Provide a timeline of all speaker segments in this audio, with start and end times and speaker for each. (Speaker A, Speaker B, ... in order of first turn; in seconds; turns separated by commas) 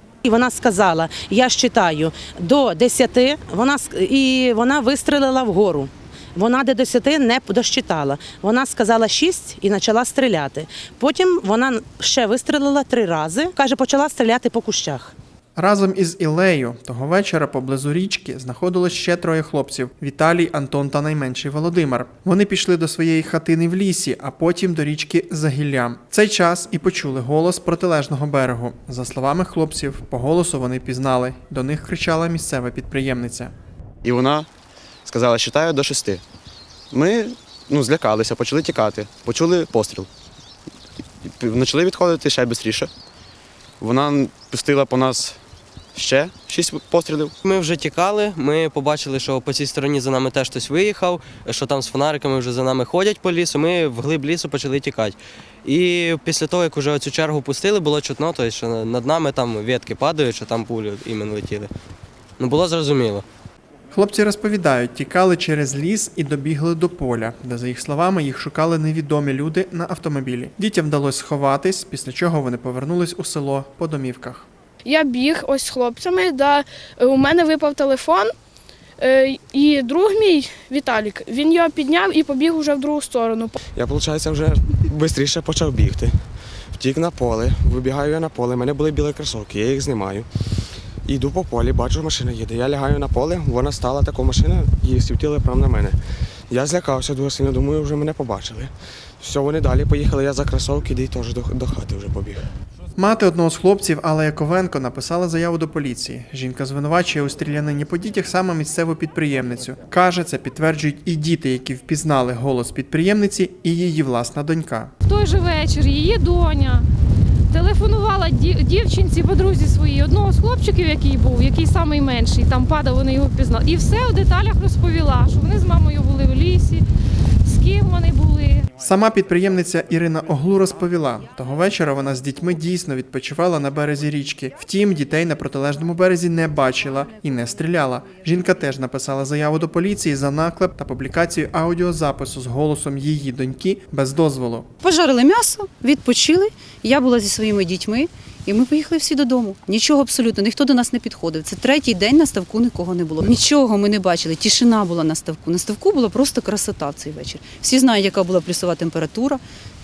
Speaker A: 0.2-15.1, Speaker B: 15.6-33.5, Speaker C: 34.0-34.5, Speaker C: 35.0-36.2, Speaker C: 36.9-40.1, Speaker C: 41.2-42.9, Speaker C: 43.8-45.4, Speaker C: 45.9-47.3, Speaker D: 47.4-61.7, Speaker D: 62.4-63.2, Speaker B: 63.9-74.5, Speaker E: 74.8-78.3, Speaker E: 79.0-83.5, Speaker F: 83.7-86.2, Speaker F: 86.7-90.3, Speaker F: 91.0-96.0, Speaker F: 96.5-102.5, Speaker B: 103.0-114.9, Speaker G: 115.0-116.8, Speaker G: 117.5-126.8, Speaker G: 127.5-128.7, Speaker B: 128.8-144.7, Speaker H: 144.8-159.4